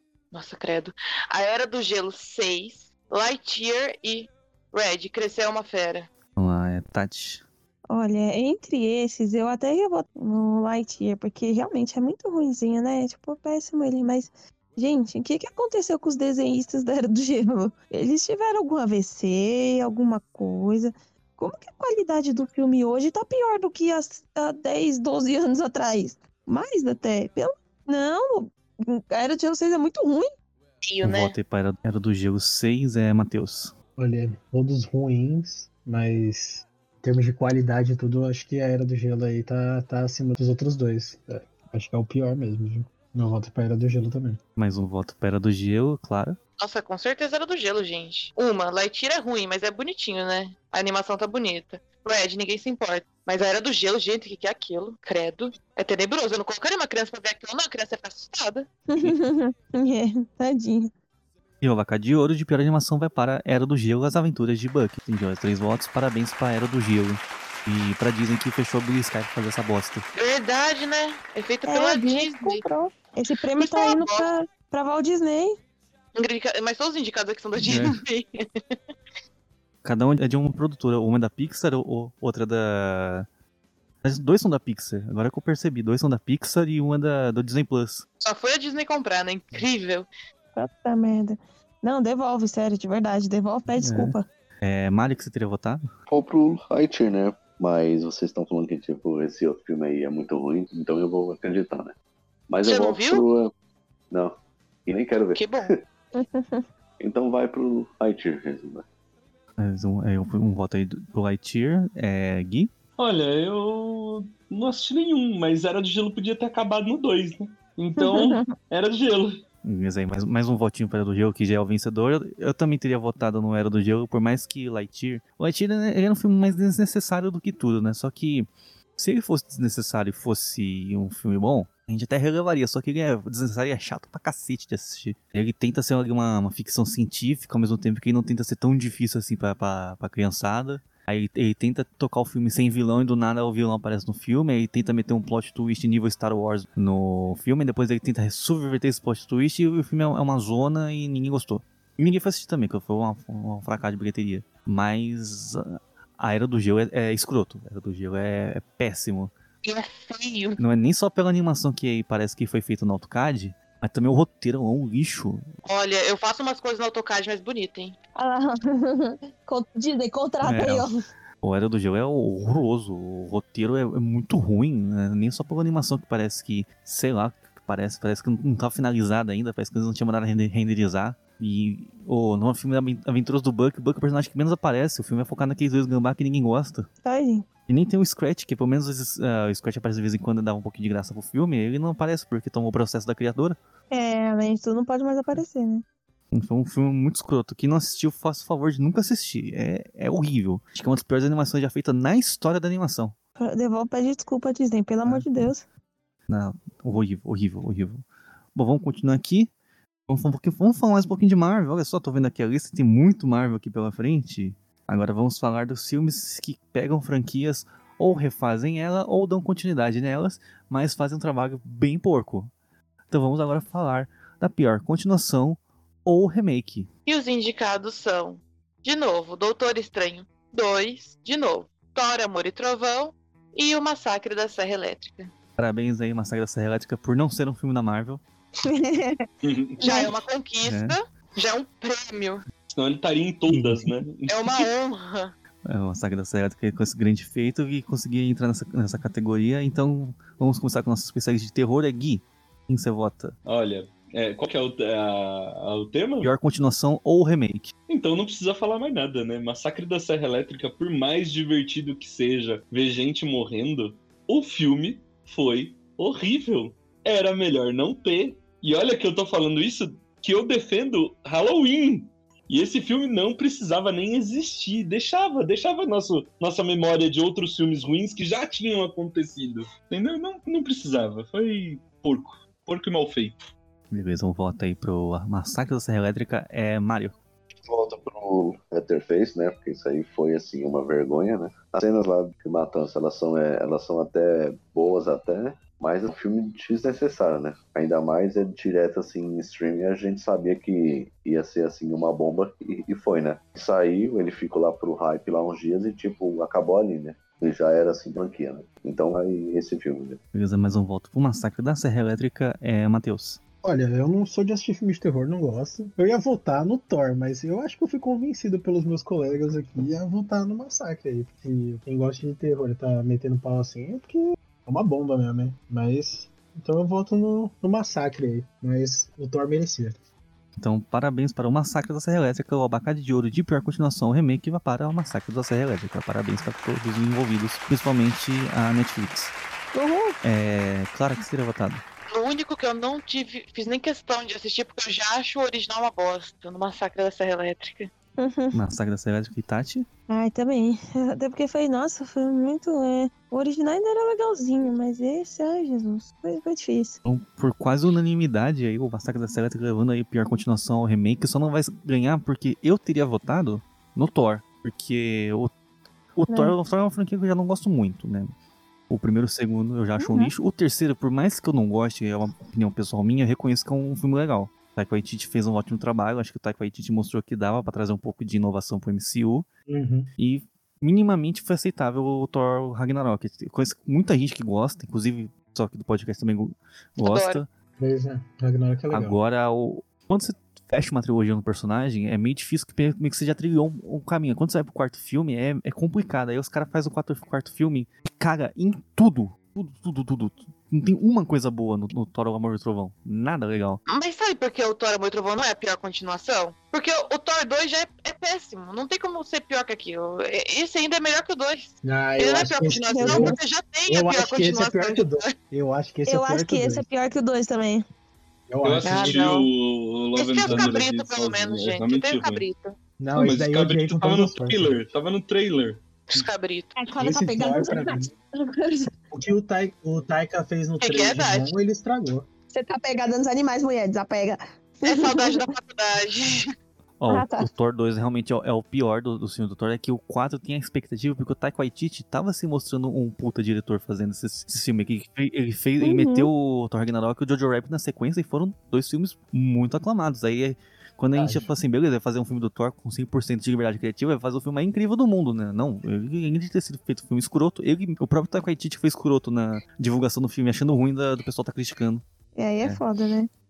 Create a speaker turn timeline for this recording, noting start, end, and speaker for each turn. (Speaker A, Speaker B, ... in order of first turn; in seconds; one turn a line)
Speaker A: 0.3-6.1
Speaker B: 6.4-7.4
Speaker C: 7.9-30.3
Speaker A: 30.8-31.4
Speaker B: 31.0-33.7
Speaker D: 34.0-44.4
Speaker B: 44.6-46.4
Speaker A: 46.6-58.7
Speaker C: 58.9-60.9
Speaker B: 61.6-70.1
Speaker A: 70.1-72.6
Speaker C: 71.7-75.6
Speaker A: 73.6-74.3
Speaker A: 76.2-78.8
Speaker B: 77.6-78.0
Speaker B: 79.8-83.3
Speaker B: 84.0-88.1
Speaker A: 88.2-90.1
Speaker C: 90.5-94.2
Speaker B: 93.8-95.9
Speaker E: 96.1-101.9
Speaker E: 102.5-103.5
Speaker A: 102.6-103.2
Speaker E: 104.1-105.8
Speaker A: 105.3-105.7
Speaker C: 106.2-106.7
Speaker E: 107.0-108.8
Speaker B: 109.6-112.7
Speaker F: 113.0-119.4
Speaker C: 118.0-118.5
Speaker B: 119.6-159.3
Speaker A: 159.6-160.6
Speaker B: 160.6-165.4
Speaker A: 165.7-168.0
Speaker C: 168.2-170.9
Speaker B: 170.4-170.9
Speaker B: 171.4-186.9
Speaker C: 187.0-187.5
Speaker B: 187.7-193.6
Speaker C: 193.9-195.8
Speaker B: 196.3-203.2
Speaker C: 203.4-205.6
Speaker B: 206.3-208.0
Speaker B: 208.6-209.5
Speaker B: 210.1-222.5
Speaker B: 223.1-226.9
Speaker A: 227.1-235.3
Speaker B: 235.6-238.2
Speaker C: 238.6-239.3
Speaker F: 239.4-239.8
Speaker C: 239.8-240.1
Speaker A: 239.8-242.4
Speaker B: 240.7-241.0
Speaker F: 242.7-244.7
Speaker B: 243.5-243.9
Speaker A: 244.3-245.3
Speaker B: 245.7-253.3
Speaker F: 253.5-256.3
Speaker B: 256.2-257.7
Speaker F: 257.9-283.4
Speaker B: 283.9-287.2
Speaker E: 287.6-310.2
Speaker B: 310.3-313.4
Speaker D: 313.6-330.0
Speaker B: 330.6-339.3
Speaker C: 339.7-340.2
Speaker B: 340.2-341.8
Speaker A: 342.1-347.9
Speaker C: 348.2-348.6
Speaker B: 348.5-349.9
Speaker C: 350.1-357.0
Speaker B: 357.1-365.5
Speaker B: 366.2-368.3
Speaker C: 366.3-366.6
Speaker B: 368.9-379.5
Speaker C: 370.0-370.3
Speaker D: 379.7-380.1
Speaker B: 380.2-387.5
Speaker A: 387.0-387.4
Speaker D: 387.8-389.2
Speaker B: 388.9-403.8
Speaker A: 403.9-415.2
Speaker D: 411.8-416.9
Speaker C: 412.9-413.4
Speaker C: 416.1-417.9
Speaker D: 418.5-419.3
Speaker F: 418.6-422.4
Speaker A: 418.8-419.5
Speaker A: 420.2-422.8
Speaker D: 420.5-420.7
Speaker D: 423.0-424.9
Speaker F: 423.1-425.8
Speaker A: 426.1-426.7
Speaker C: 426.8-428.9
Speaker D: 427.0-428.1
Speaker D: 429.1-432.3
Speaker A: 430.8-431.5
Speaker C: 432.5-435.4
Speaker A: 434.8-436.5
Speaker B: 437.0-462.0
Speaker C: 437.1-437.5
Speaker C: 445.8-446.3
Speaker D: 451.1-451.5
Speaker C: 462.4-463.3